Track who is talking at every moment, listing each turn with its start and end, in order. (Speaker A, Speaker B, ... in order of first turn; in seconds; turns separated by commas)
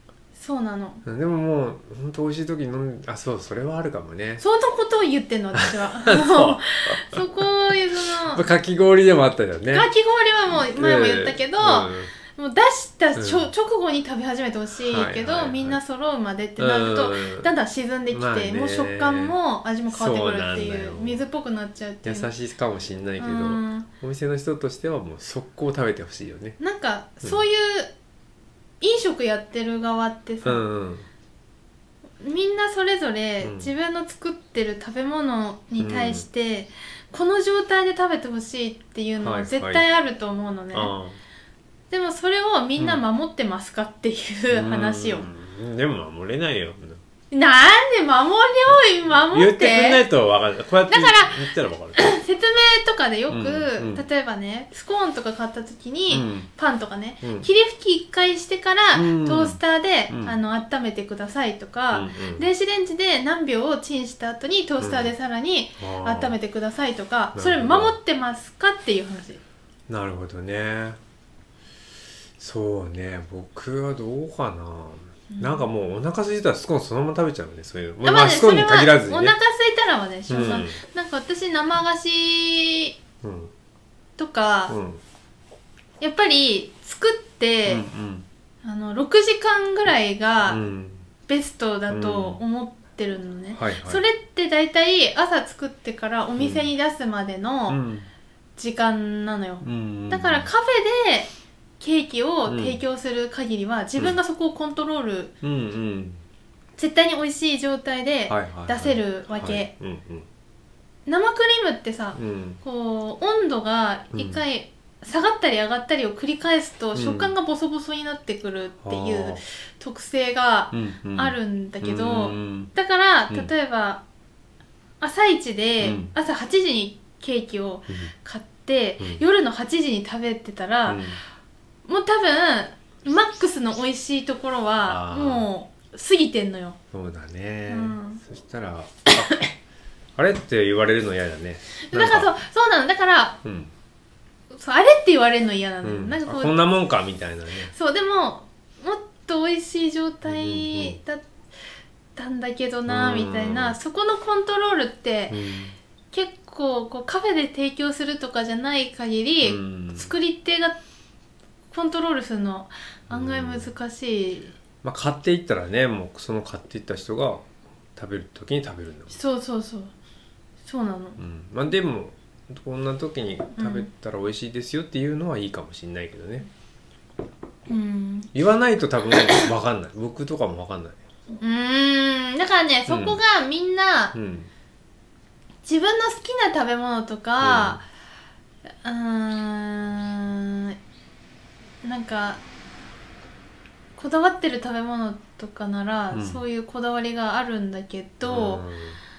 Speaker A: 0.3-1.0, Speaker B: 1.0-4.4, Speaker A: 4.4-8.4, Speaker B: 5.5-7.2, Speaker B: 8.1-9.9, Speaker A: 9.7-22.3, Speaker B: 10.5-12.1, Speaker B: 13.2-13.5, Speaker B: 14.8-15.8, Speaker B: 16.6-17.5, Speaker B: 18.1-19.4, Speaker B: 19.9-21.2, Speaker B: 22.0-26.6, Speaker A: 23.2-23.9, Speaker A: 26.6-27.9, Speaker A: 28.8-30.6, Speaker B: 30.4-31.1, Speaker A: 32.2-40.9, Speaker B: 33.4-33.7, Speaker B: 35.8-36.2, Speaker B: 39.2-39.8, Speaker B: 40.7-41.2, Speaker A: 41.9-45.3, Speaker B: 44.5-47.0, Speaker A: 47.3-50.0, Speaker B: 49.1-52.0, Speaker A: 50.9-69.4, Speaker B: 53.3-54.0, Speaker B: 56.1-56.5, Speaker B: 57.2-57.5, Speaker B: 58.9-60.4, Speaker B: 61.9-62.5, Speaker B: 64.8-65.1, Speaker B: 65.8-66.3, Speaker B: 67.3-68.0, Speaker B: 69.9-71.0, Speaker B: 72.4-79.3, Speaker A: 75.3-75.7, Speaker A: 78.0-83.0, Speaker B: 80.3-80.8, Speaker B: 83.2-83.5, Speaker A: 84.2-84.8, Speaker B: 84.7-85.0, Speaker A: 86.0-87.8, Speaker B: 87.7-88.2, Speaker A: 88.6-90.6, Speaker B: 90.4-91.0, Speaker A: 91.3-97.8, Speaker B: 91.9-92.4, Speaker B: 93.5-94.0, Speaker B: 96.4-96.7, Speaker B: 97.7-98.1, Speaker A: 98.6-105.3, Speaker B: 99.6-100.5, Speaker B: 102.5-102.8, Speaker B: 105.4-106.2, Speaker A: 106.8-109.7, Speaker B: 108.3-110.3, Speaker A: 111.0-124.0, Speaker B: 112.1-112.6, Speaker B: 114.1-114.4, Speaker B: 116.9-117.3, Speaker B: 118.8-119.4, Speaker B: 120.7-122.7, Speaker A: 125.0-131.0, Speaker B: 125.8-126.1, Speaker B: 130.8-131.2, Speaker A: 131.8-136.8, Speaker B: 134.8-135.5, Speaker B: 136.9-139.3, Speaker A: 137.7-138.2, Speaker B: 140.2-142.3, Speaker A: 141.8-143.4, Speaker B: 143.4-143.7, Speaker A: 144.5-146.5, Speaker B: 145.8-147.7, Speaker A: 147.7-151.3, Speaker B: 150.2-151.0, Speaker A: 152.2-155.3, Speaker B: 152.9-153.8, Speaker B: 155.3-155.8, Speaker A: 156.1-160.8, Speaker B: 159.4-160.1, Speaker A: 161.7-164.5, Speaker B: 163.1-163.7, Speaker B: 164.8-169.2, Speaker A: 169.1-169.9, Speaker A: 170.6-171.2, Speaker B: 171.2-176.5, Speaker A: 173.6-173.9, Speaker A: 177.7-178.3, Speaker B: 178.3-181.0, Speaker A: 181.4-184.2, Speaker B: 182.9-183.2, Speaker B: 184.1-184.5, Speaker A: 185.6-187.8, Speaker B: 187.4-187.8, Speaker A: 188.8-190.8, Speaker A: 191.8-192.4, Speaker A: 193.9-198.6, Speaker B: 196.1-196.4, Speaker B: 198.2-199.0